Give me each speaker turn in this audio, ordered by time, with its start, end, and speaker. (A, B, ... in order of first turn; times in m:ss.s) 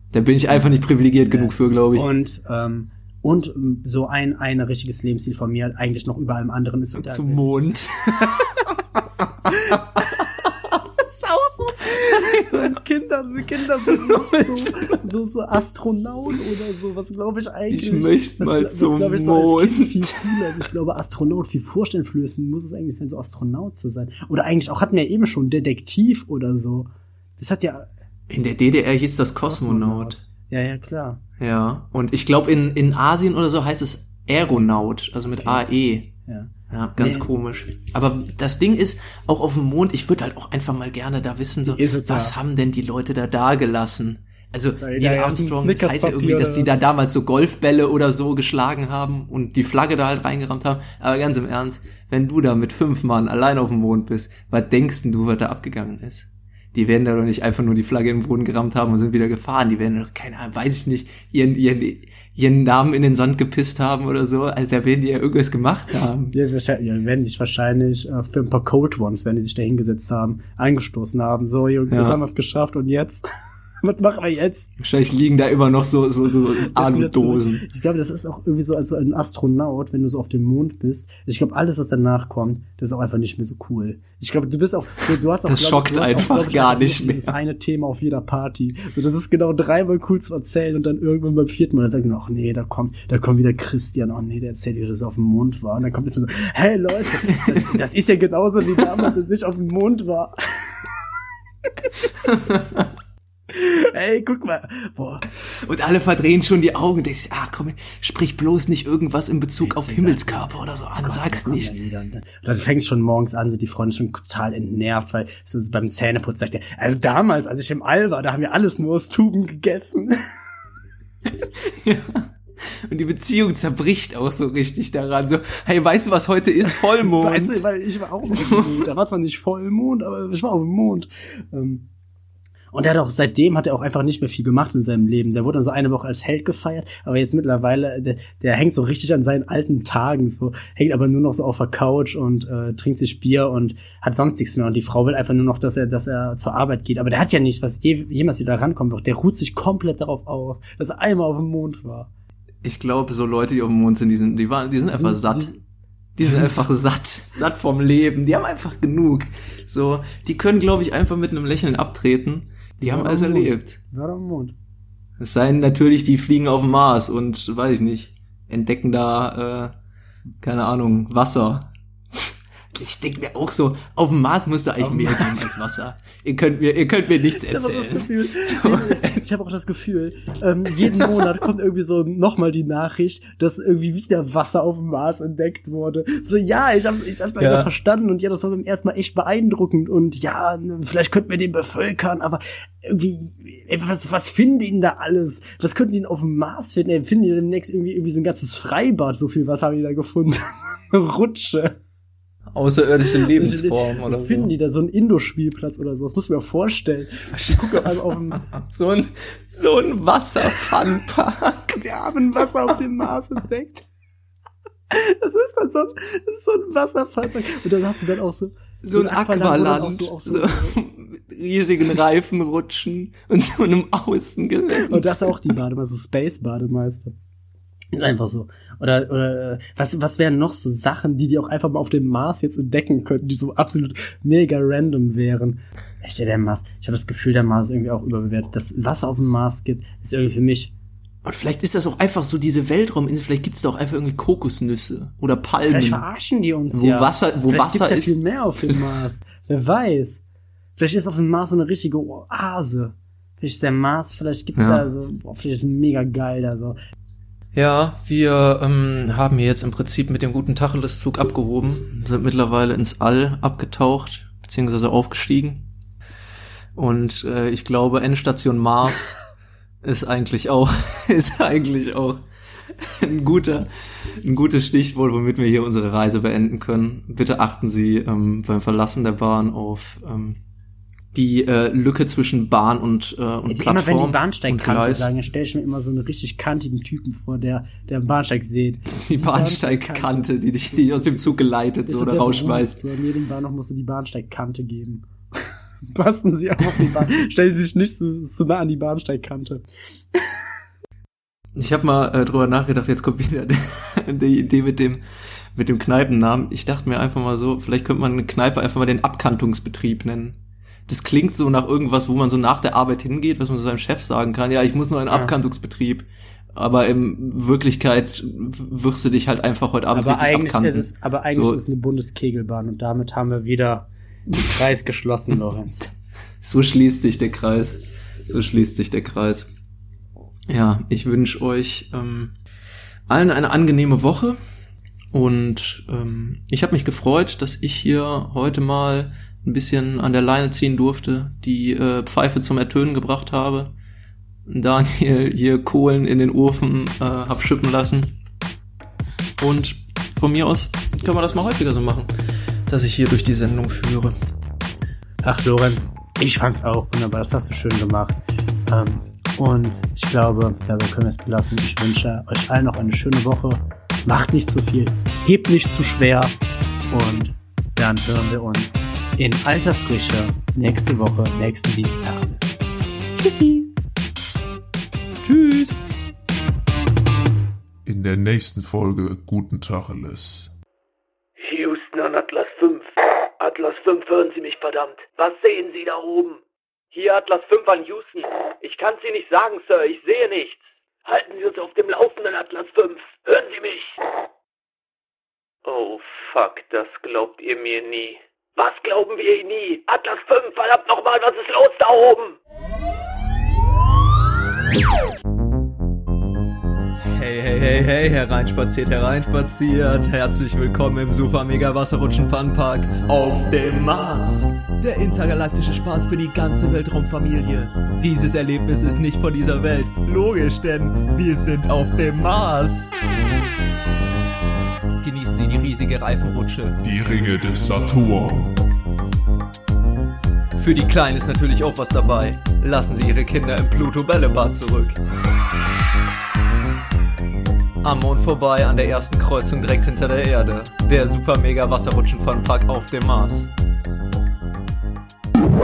0:00.1-0:02.1 A
0:00.5-0:07.4 B
0:07.0-0:08.7 A
0:09.4-0:10.5 A
0:09.5-0:10.5 B
0:11.0-0:27.9 B
0:12.1-0:12.7 A
0:13.9-0:15.0 A
0:17.7-0:20.4 A
0:28.3-0:30.2 A
0:29.4-0:31.2 B
0:31.4-0:36.1 A
0:36.3-0:37.3 B
0:36.7-1:06.4 A
0:41.7-0:42.4 B
0:44.8-0:46.7 B
1:06.3-1:13.2 B
1:11.9-1:12.2 A
1:13.8-1:14.7 B
1:14.8-1:17.6 A
1:16.6-1:40.9 B
1:25.4-1:27.3 A
1:37.2-1:37.8 A
1:42.2-1:42.9 A
1:43.5-1:45.2 B
1:45.3-1:51.7 A
1:49.6-2:00.3 B
2:01.4-2:07.6 A
2:06.9-2:11.9 B
2:08.3-2:08.7 A
2:12.7-2:32.1 B
2:32.6-2:35.5 A
2:34.8-2:35.5 B
2:36.2-2:43.8 A
2:36.2-2:36.5 B
2:42.8-2:44.6 B
2:45.2-2:49.7 A
2:50.4-2:59.2 A
2:54.8-2:55.5 B
2:57.3-3:21.8 B
3:00.8-3:01.4 A
3:07.4-3:07.7 A
3:22.5-3:24.5 A
3:23.1-3:28.4 B
3:27.3-3:31.8 A
3:31.7-3:33.9 B
3:34.9-3:40.8 B
3:38.8-3:45.4 A
3:44.7-3:47.1 B
3:47.9-4:00.7 B
4:01.2-4:06.0 A
4:05.7-4:10.2 B
4:06.7-4:08.8 A
4:10.8-4:16.8 B
4:14.6-4:14.9 A
4:17.6-4:25.7 A
4:26.8-4:29.2 A
4:29.8-4:32.3 A
4:32.8-4:40.4 A
4:41.1-4:45.1 A
4:43.5-5:00.4 B
4:48.9-4:52.8 A
5:01.6-5:05.0 A
5:05.5-5:21.6 A
5:19.9-5:25.9 B
5:26.4-5:29.5 A
5:30.5-5:32.3 A
5:33.1-5:34.4 A
5:35.1-5:43.7 A
5:44.5-5:48.2 A
5:49.4-5:52.1 A
5:52.7-5:54.1 A
5:55.2-6:06.3 B
6:06.9-6:12.6 B
6:13.2-6:13.7 B
6:15.2-6:15.7 A
6:17.9-6:20.5 C
6:21.4-6:26.4 D
6:26.9-6:34.0 D
6:35.6-6:42.4 D
6:47.0-7:02.9 A
7:05.0-7:06.8 A
7:06.8-7:08.5 C
7:10.6-7:15.0 A
7:17.8-7:23.5 A